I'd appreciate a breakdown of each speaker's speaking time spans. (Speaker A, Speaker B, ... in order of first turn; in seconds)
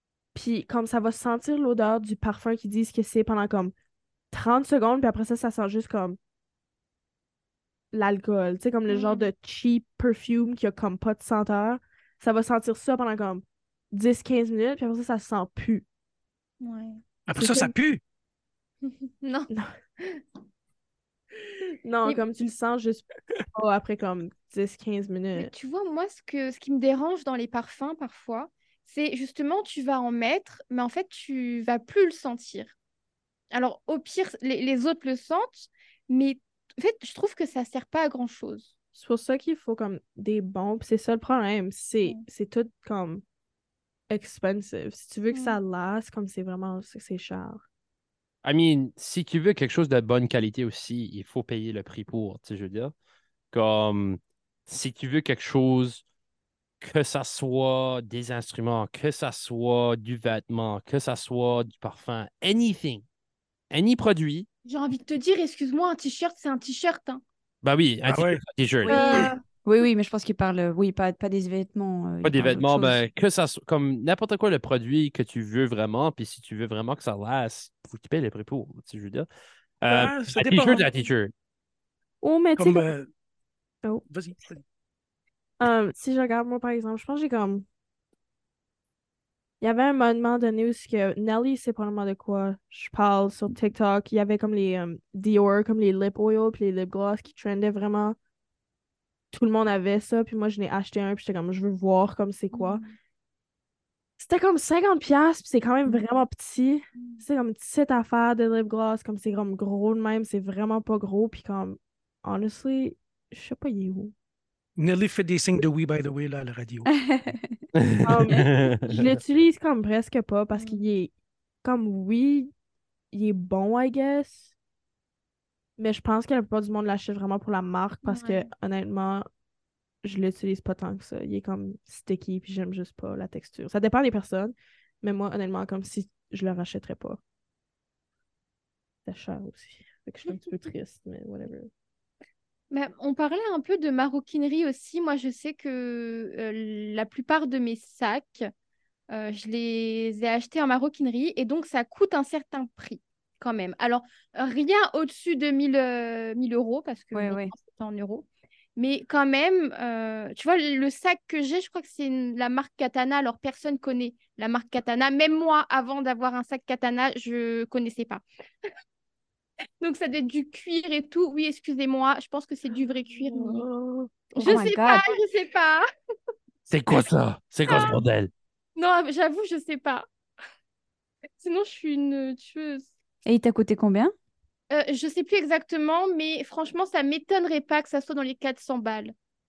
Speaker A: 0.3-3.7, 4.3-6.2, 7.9-15.8, 17.3-17.7, 21.8-25.5, 38.9-43.2, 44.1-47.6, 82.2-82.9, 85.6-87.6, 89.6-98.2, 99.3-102.8, 104.2-114.1, 118.0-121.1, 121.6-122.5, 123.1-124.5, 125.8-129.3, 130.0-137.2, 139.1-141.7, 173.2-174.1
Speaker B: 8.9-9.3, 16.6-17.0, 19.2-19.5, 25.3-32.7, 33.5-38.7, 45.3-45.6, 64.7-67.2, 68.8-69.4, 102.5-102.9, 107.0-107.2, 120.5-120.8, 128.0-128.5, 140.3-140.7, 142.7-148.5, 149.1-168.2, 169.8-173.6, 174.3-175.8, 177.7-178.0, 178.8-180.1, 181.4-182.9, 184.7-189.1
Speaker C: 17.3-18.0, 68.0-68.4, 79.9-80.9, 82.5-83.1, 84.1-84.6, 114.8-116.9
Speaker D: 48.4-52.9, 53.5-56.0, 56.8-63.0, 63.7-64.5, 67.6-69.2, 72.2-79.3, 79.8-81.3, 117.7-119.2, 176.7-178.3
Speaker E: 68.8-73.0, 116.9-117.5, 157.1-157.5, 174.3-175.1, 183.2-184.1